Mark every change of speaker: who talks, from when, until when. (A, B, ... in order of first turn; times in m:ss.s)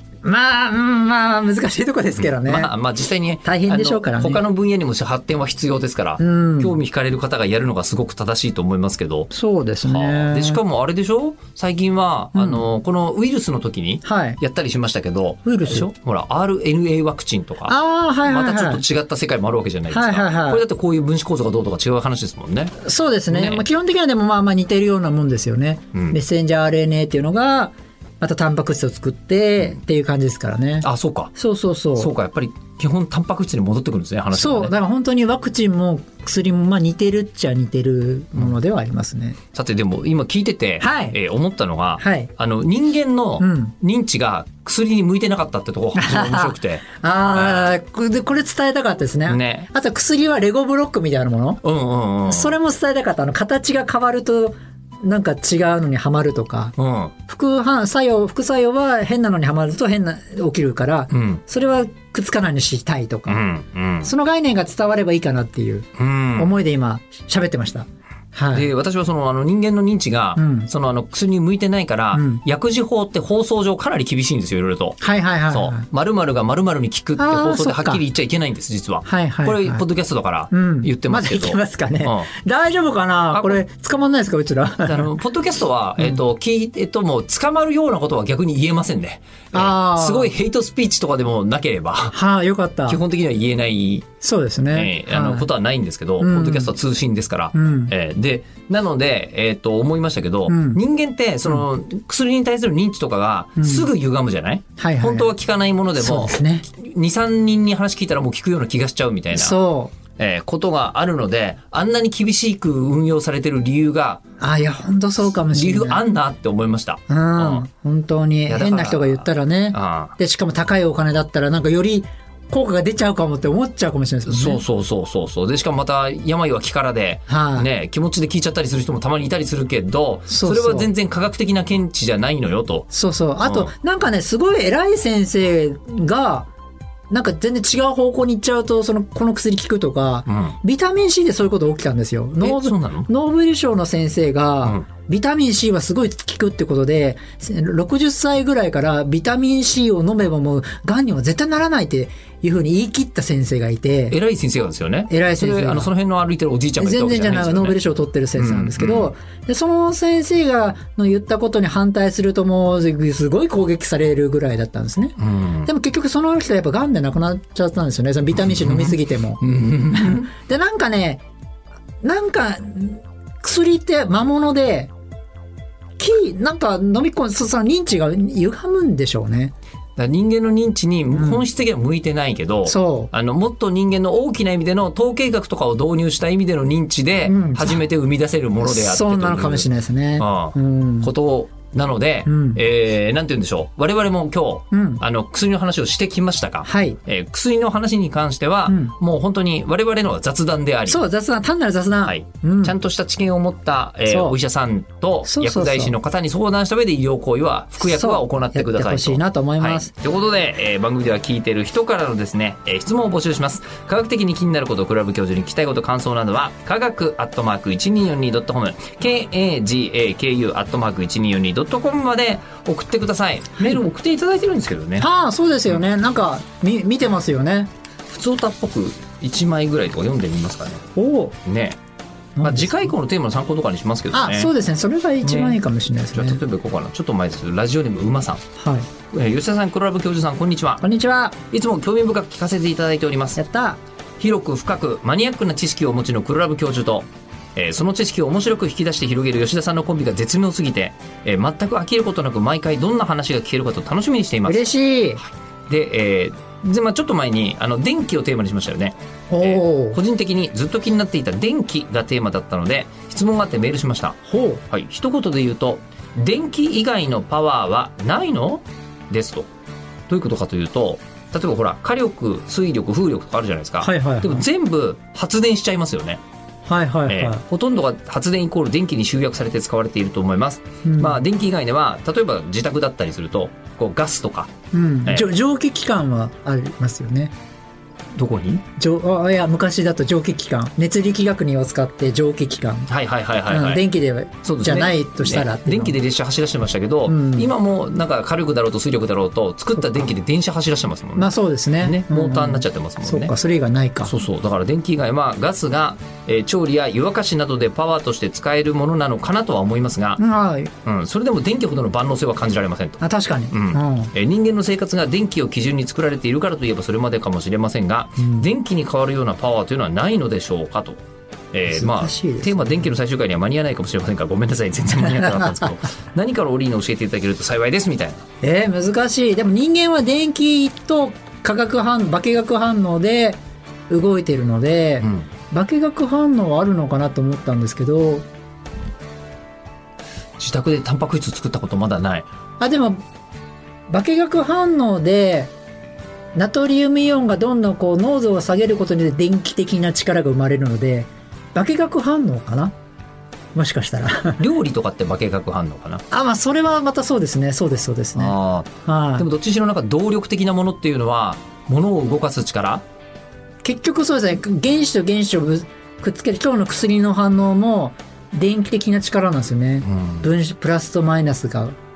0:00.2-0:02.7 A
0:02.2-0:09.3 B
0:03.4-0:04.4 A
0:06.2-0:06.8 A
0:09.3-0:10.6 A
0:09.8-0:17.7 B
0:12.3-0:12.6 A
0:14.0-0:14.4 A
0:15.4-0:15.9 A
0:17.7-0:18.8 A
0:18.3-0:22.8 B
0:19.9-0:20.6 A
0:22.8-0:32.1 A
0:23.3-0:23.6 B
0:30.8-0:31.3 B
0:32.0-0:34.7 B
0:34.3-0:39.4 A
0:39.5-0:47.7 B
0:40.8-0:41.2 A
0:42.0-0:42.3 A
0:43.4-0:43.7 A
0:45.9-0:51.6 A
0:49.3-0:49.7 B
0:51.6-0:52.6 B
0:52.2-0:56.7 A
0:56.8-0:57.1 B
0:57.3-1:03.4 A
1:01.1-1:01.4 B
1:03.3-1:04.1 B
1:04.0-1:08.7 A
1:06.0-1:06.5 B
1:08.5-1:22.3 B
1:10.4-1:10.7 A
1:12.1-1:12.4 A
1:15.0-1:15.8 A
1:17.2-1:18.0 A
1:19.0-1:19.8 A
1:20.5-1:25.1 A
1:23.3-1:23.6 B
1:24.8-1:32.1 B
1:29.5-1:30.3 A
1:32.1-1:33.0 A
1:32.9-1:34.1 B
1:34.2-1:35.5 A
1:34.7-1:49.6 B
1:36.2-1:36.7 A
1:37.5-1:37.9 A
1:40.5-1:40.8 A
1:43.6-1:43.9 A
1:44.8-1:45.3 A
1:46.0-1:46.6 A
1:49.3-1:49.9 A
1:50.2-1:54.2 B
1:54.4-1:56.0 A
1:55.5-1:57.6 B
1:57.1-2:04.6 A
1:58.5-2:00.1 B
2:04.2-2:12.9 B
2:07.3-2:07.7 A
2:10.3-2:10.9 A
2:12.9-2:16.5 A
2:13.4-2:13.7 B
2:17.1-2:34.2 A
2:20.3-2:20.6 B
2:22.4-2:23.1 B
2:34.1-2:37.8 B
2:35.1-2:35.9 A
2:36.8-2:51.2 A
2:38.4-2:39.1 B
2:45.2-2:45.7 B
2:48.3-2:50.3 B
2:52.0-2:54.9 A
2:56.0-2:59.5 A
3:00.0-3:21.0 B
3:01.1-3:01.4 A
3:02.6-3:03.1 A
3:07.2-3:07.8 A
3:08.6-3:11.1 A
3:12.2-3:12.6 A
3:14.7-3:15.0 A
3:16.6-3:17.0 A
3:18.7-3:19.0 A
3:20.9-3:22.7 A
3:22.0-3:45.1 B
3:24.1-3:24.4 A
3:25.2-3:26.0 A
3:27.8-3:29.9 A
3:43.5-3:43.8 A
3:45.0-3:47.7 A
3:48.1-3:50.8 B
3:51.0-3:51.4 A
3:51.4-3:51.8 B
3:52.4-3:52.9 A
3:52.4-3:54.5 B
3:54.1-3:56.4 A
3:55.2-3:55.6 B
3:56.1-3:58.4 B
3:58.6-3:58.9 A
3:59.1-4:00.8 B
4:00.8-4:01.4 A
4:01.5-4:03.4 B
4:03.4-4:03.8 A
4:04.2-4:14.7 B
4:14.4-4:15.2 A
4:15.2-4:24.2 B
4:19.3-4:20.0 A
4:24.2-4:24.6 A
4:24.7-4:29.5 B
4:30.1-4:36.2 B
4:33.8-4:34.4 A
4:36.6-4:37.4 A
4:37.1-4:44.5 B
4:40.8-4:41.2 A
4:44.7-4:47.3 A
4:48.1-4:48.6 B
4:48.7-4:52.9 A
4:52.9-4:53.8 B
4:53.5-4:56.0 A
4:54.4-5:03.3 B
4:57.1-4:57.5 A
5:01.2-5:04.1 A
5:04.0-5:10.2 B
5:10.2-5:10.7 A
5:10.8-5:13.0 B
5:13.0-5:14.1 A
5:13.5-5:28.2 B
5:18.2-5:18.5 A
5:21.7-5:22.9 A
5:25.0-5:25.8 A
5:28.4-5:38.2 A
5:35.0-5:35.3 B
5:40.4-5:42.3 B
5:42.6-5:43.0 A
5:43.9-5:45.5 A
5:46.3-5:52.7 A
5:53.5-5:54.4 A
5:54.4-5:56.0 B
5:56.1-5:59.2 A
5:58.2-6:02.8 B
6:03.6-6:11.8 A
6:09.8-6:10.3 B